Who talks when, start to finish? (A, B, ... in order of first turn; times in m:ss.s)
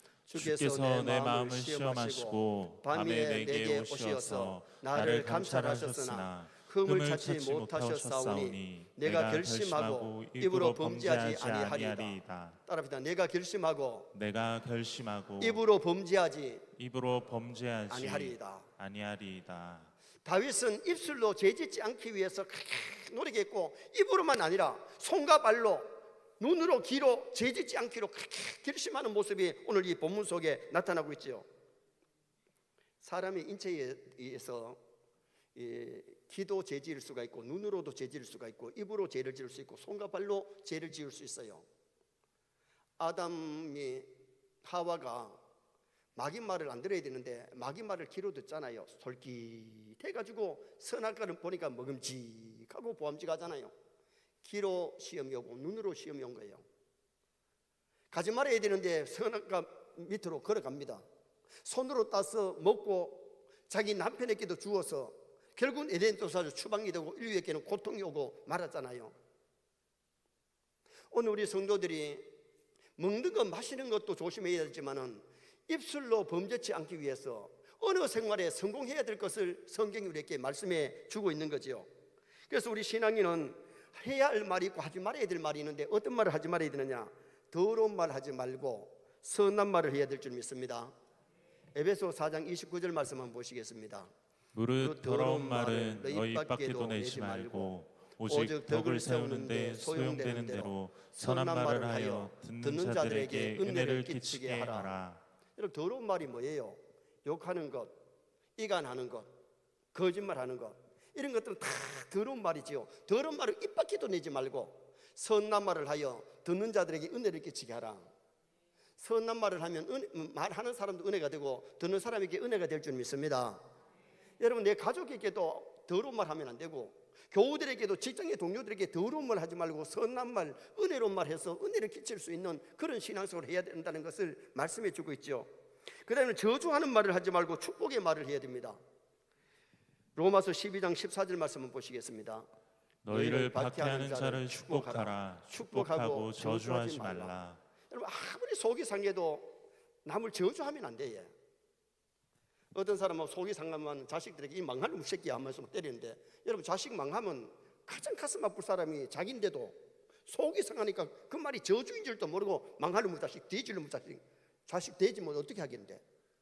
0:00.3-0:14.1 A
0:00.3-0:12.6 B
0:14.1-0:15.6 B
0:15.4-0:16.6 A
0:16.8-0:19.9 B
0:17.9-0:18.7 A
0:20.2-0:31.4 A
0:33.0-0:34.8 A
0:35.5-0:41.6 A
0:43.0-0:44.1 A
0:44.6-0:45.4 A
0:46.2-0:53.7 A
0:54.4-0:56.6 A
0:58.1-1:01.0 A
1:01.6-1:09.1 A
1:11.1-1:12.3 A
1:13.0-1:21.9 A
1:22.5-1:30.9 A
1:31.7-1:34.1 A
1:34.5-1:45.2 B
1:34.8-1:37.7 A
1:38.3-1:45.0 A
1:45.6-1:48.0 A
1:48.6-1:49.3 A
1:49.9-1:58.1 A
1:59.0-2:03.6 A
2:04.4-2:15.5 A
2:16.0-2:18.8 A
2:20.2-2:22.5 A
2:23.0-2:27.6 B
2:23.1-2:27.3 A
2:27.9-2:31.3 A
2:32.7-2:46.0 A